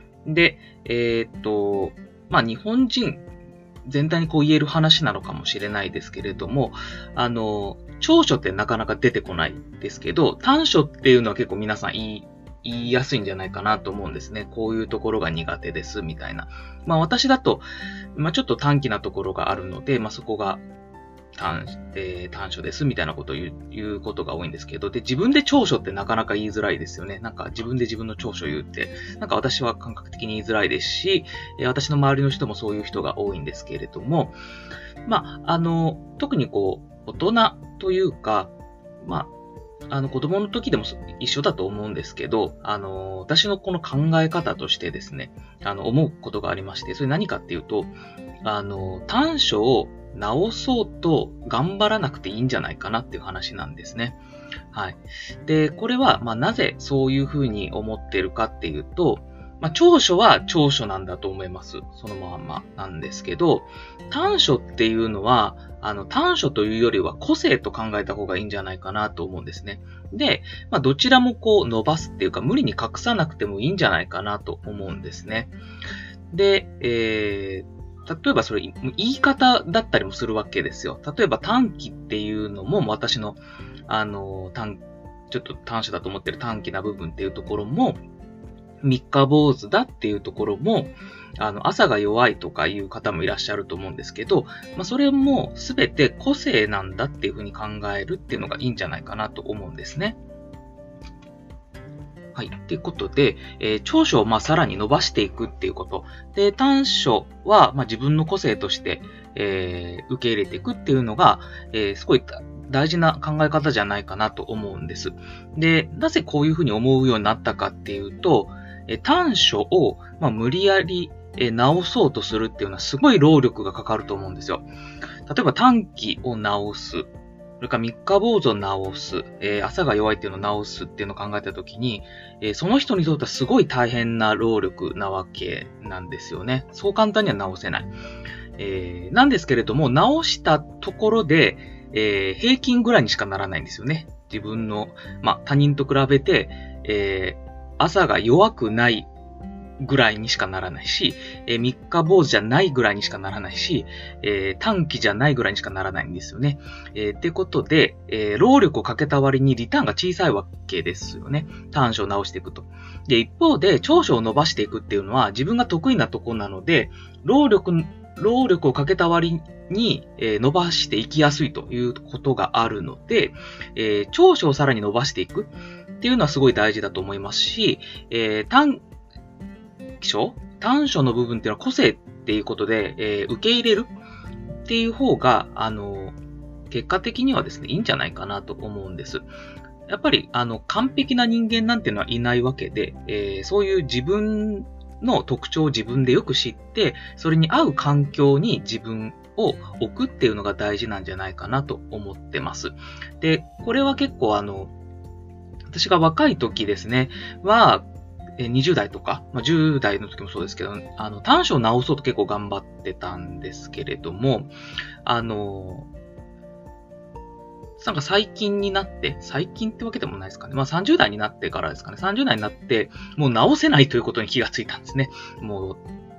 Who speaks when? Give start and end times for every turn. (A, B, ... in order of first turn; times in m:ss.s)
0:00.2-0:03.2 A
0:03.8-0:20.6 A
0:21.3-0:34.4 A
0:35.0-0:39.3 A
0:39.9-0:54.2 A
0:54.7-1:15.5 A
1:16.3-1:28.0 A
1:28.8-1:40.2 A
1:42.3-2:04.6 A
2:05.3-2:07.1 A
2:07.6-2:17.9 A
2:18.6-2:29.1 A
2:29.8-2:58.8 A
3:00.0-3:03.9 A
3:04.6-3:06.2 A
3:06.7-3:09.3 A
3:09.9-3:24.7 A
3:25.7-3:27.9 A
3:28.4-3:35.9 A
3:37.8-3:45.8 A